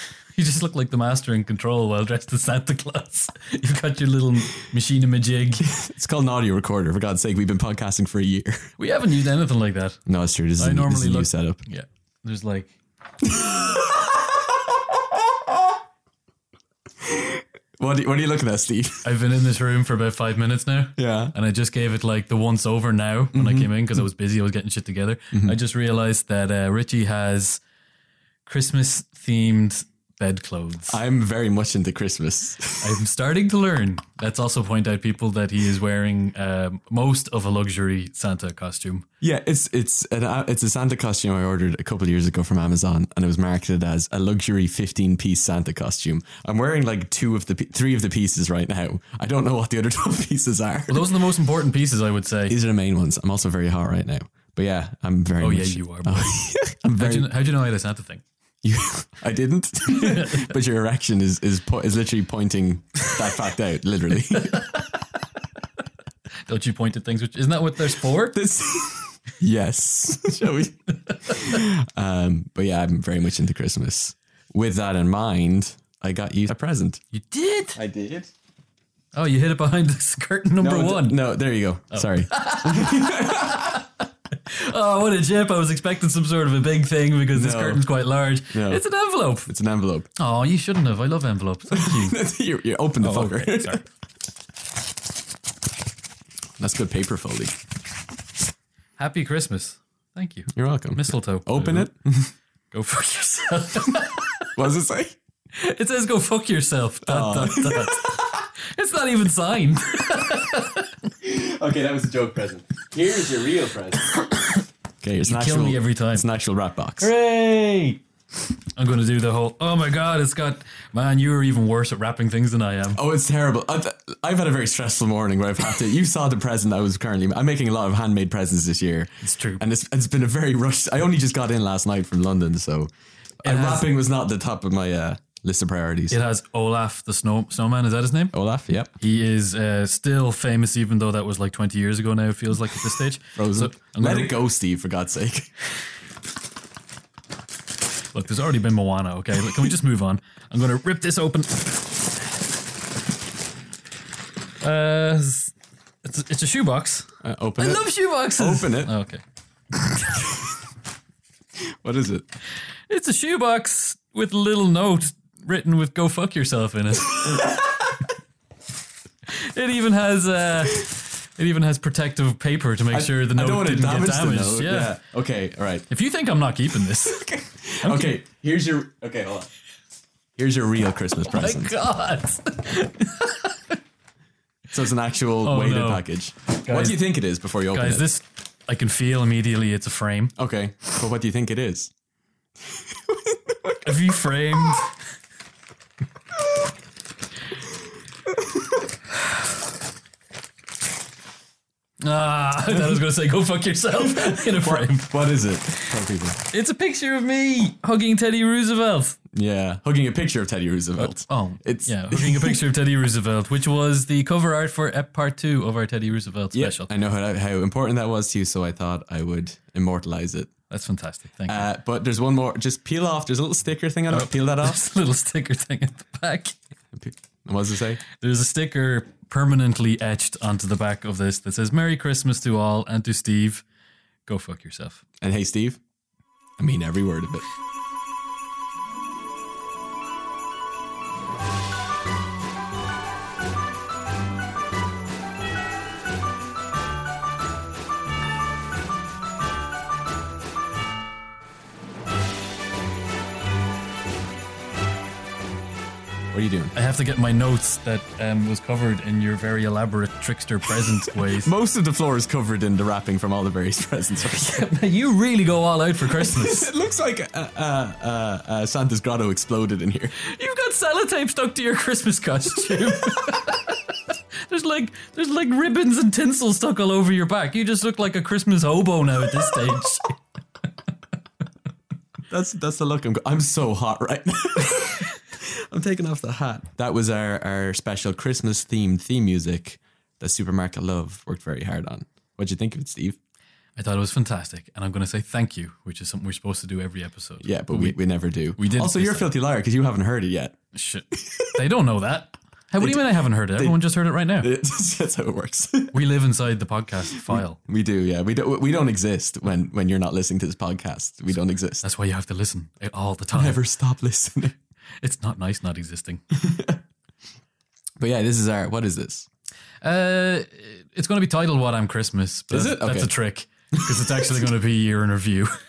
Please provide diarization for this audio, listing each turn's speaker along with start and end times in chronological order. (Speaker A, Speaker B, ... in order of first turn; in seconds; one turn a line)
Speaker A: 0.3-5.7
Speaker B: 5.6-8.7
Speaker A: 8.8-10.0
Speaker B: 10.1-11.6
Speaker A: 10.6-12.7
Speaker B: 13.2-14.1
Speaker B: 17.0-19.1
Speaker A: 19.0-27.6
Speaker B: 21.0-21.3
Speaker B: 23.3-23.7
Speaker A: 28.4-31.0
Speaker B: 30.9-33.0
Speaker A: 32.8-39.0
Speaker B: 39.2-51.1
Speaker A: 50.9-52.5
Speaker B: 52.5-57.3
Speaker A: 55.4-56.4
Speaker A: 57.0-58.2
Speaker B: 58.6-64.7
Speaker A: 59.8-60.5
Speaker A: 64.5-64.8
Speaker A: 66.5-68.3
Speaker B: 68.3-77.0
Speaker A: 71.3-71.5
Speaker A: 77.1-77.8
Speaker B: 77.7-78.3
Speaker A: 79.1-81.2
Speaker B: 80.6-83.8
Speaker A: 81.9-83.8
Speaker A: 84.5-89.5
Speaker B: 87.3-87.8
Speaker B: 88.5-88.8
Speaker B: 89.5-90.1
Speaker A: 90.2-92.2
Speaker B: 91.7-93.8
Speaker A: 93.0-93.8
Speaker B: 96.6-97.6
Speaker A: 99.0-101.9
Speaker B: 100.5-102.3
Speaker A: 102.7-104.4
Speaker B: 104.5-105.2
Speaker A: 105.5-108.2
Speaker B: 107.0-108.4
Speaker A: 108.7-110.9
Speaker B: 111.2-114.1
Speaker B: 115.0-117.1
Speaker A: 115.2-116.2
Speaker A: 117.0-118.0
Speaker A: 118.7-123.0
Speaker B: 122.9-136.2
Speaker A: 129.2-129.6
Speaker A: 133.4-133.9
Speaker A: 136.1-138.3
Speaker B: 138.3-138.9
Speaker A: 139.0-144.3
Speaker B: 143.3-145.5
Speaker A: 148.1-152.0
Speaker A: 154.6-159.2
Speaker B: 157.2-158.9
Speaker A: 159.7-160.2
Speaker B: 161.6-162.2
Speaker A: 162.9-167.6
Speaker B: 167.2-167.9
Speaker A: 169.3-175.0
Speaker B: 172.9-175.9
Speaker A: 175.9-177.2
Speaker B: 177.0-179.5
Speaker A: 177.8-178.2
Speaker B: 180.4-181.7
Speaker A: 181.3-183.8
Speaker B: 184.7-188.0
Speaker A: 185.4-186.1
Speaker A: 186.6-187.0
Speaker A: 187.7-190.3
Speaker B: 190.3-191.9
Speaker B: 192.9-193.8
Speaker A: 193.8-194.9
Speaker A: 202.0-205.3
Speaker B: 204.0-206.4
Speaker A: 206.5-209.2
Speaker B: 209.3-212.6
Speaker A: 211.0-216.9
Speaker B: 216.5-220.5
Speaker A: 220.7-221.7
Speaker B: 221.5-224.8
Speaker A: 224.1-226.6
Speaker B: 226.9-228.0
Speaker A: 228.1-233.6
Speaker A: 234.2-235.0
Speaker B: 235.2-235.8
Speaker B: 236.6-237.4
Speaker B: 256.3-256.7
Speaker A: 256.7-261.5
Speaker B: 261.4-264.6
Speaker A: 264.2-266.7
Speaker B: 266.0-270.2
Speaker A: 270.2-280.1
Speaker B: 282.3-293.2
Speaker A: 293.8-298.0
Speaker B: 297.4-300.6
Speaker A: 298.6-299.3
Speaker A: 300.7-304.5
Speaker B: 301.1-301.6
Speaker B: 302.8-303.8
Speaker B: 304.4-305.9
Speaker A: 305.9-307.6
Speaker B: 307.1-311.8
Speaker A: 311.8-313.6
Speaker B: 313.3-314.5
Speaker A: 315.0-316.2
Speaker B: 316.4-316.8
Speaker B: 318.0-319.3
Speaker A: 319.8-325.6
Speaker B: 322.5-323.1
Speaker B: 323.7-324.4